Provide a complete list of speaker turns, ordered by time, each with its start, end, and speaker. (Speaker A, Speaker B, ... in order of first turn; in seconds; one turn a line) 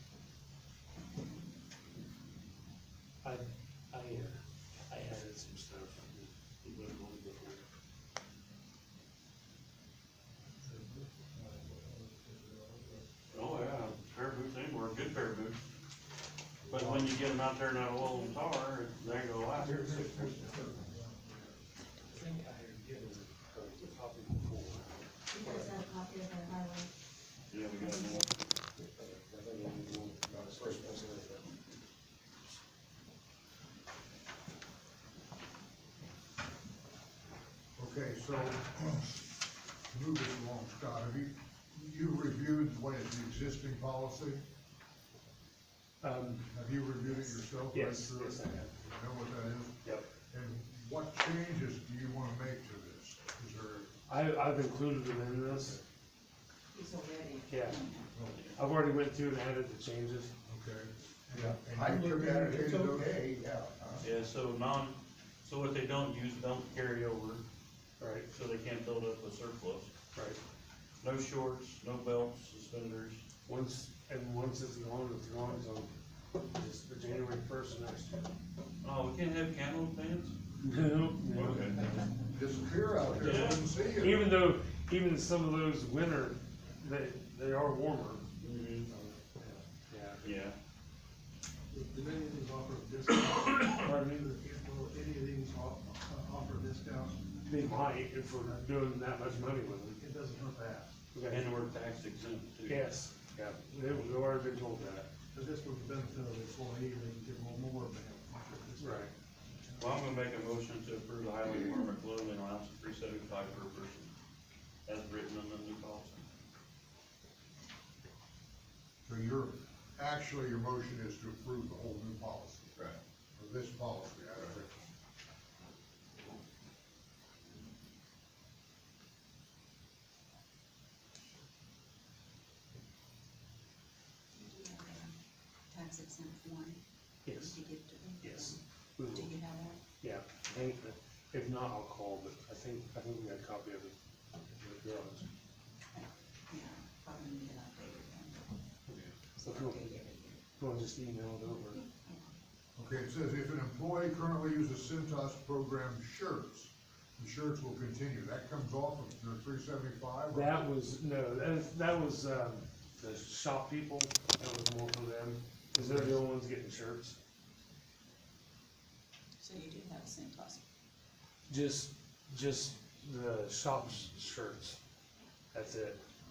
Speaker A: 3.2-7.7
Speaker B: 10.6-13.0
Speaker C: 13.3-15.6
Speaker C: 16.7-20.5
Speaker D: 19.6-21.1
Speaker A: 22.1-25.7
Speaker E: 25.3-26.9
Speaker C: 27.5-28.3
Speaker E: 27.8-28.1
Speaker A: 28.8-31.6
Speaker F: 37.8-39.2
Speaker F: 39.9-44.4
Speaker A: 46.0-46.5
Speaker F: 46.5-53.9
Speaker E: 47.0-47.4
Speaker A: 47.7-48.7
Speaker A: 54.1-55.8
Speaker E: 56.7-58.1
Speaker A: 57.5-57.8
Speaker A: 58.5-60.3
Speaker F: 60.5-63.1
Speaker D: 61.3-64.1
Speaker C: 64.0-67.4
Speaker A: 68.0-68.3
Speaker C: 68.3-69.9
Speaker A: 70.1-70.4
Speaker C: 71.0-73.2
Speaker A: 73.4-78.3
Speaker C: 78.8-80.3
Speaker A: 80.6-81.8
Speaker C: 81.3-81.8
Speaker F: 82.2-84.3
Speaker C: 83.1-83.7
Speaker A: 84.0-88.2
Speaker C: 88.4-88.9
Speaker A: 89.9-90.2
Speaker C: 90.2-90.5
Speaker B: 91.7-97.2
Speaker A: 93.7-94.3
Speaker A: 97.5-100.0
Speaker B: 100.0-100.9
Speaker A: 101.1-101.4
Speaker C: 101.3-102.8
Speaker A: 102.7-105.1
Speaker B: 105.3-109.1
Speaker A: 108.8-109.1
Speaker B: 109.7-109.9
Speaker C: 109.8-114.1
Speaker C: 114.8-116.2
Speaker F: 119.0-124.7
Speaker E: 134.3-135.2
Speaker E: 135.7-136.8
Speaker A: 137.2-137.6
Speaker E: 137.3-139.8
Speaker A: 138.2-139.3
Speaker A: 139.9-143.9
Speaker A: 144.5-145.3
Speaker E: 145.9-148.5
Speaker E: 149.4-150.4
Speaker A: 149.4-151.8
Speaker F: 152.8-160.6
Speaker A: 160.3-167.2
Speaker F: 165.8-166.2
Speaker E: 169.4-170.6
Speaker A: 171.5-174.8
Speaker A: 175.5-176.0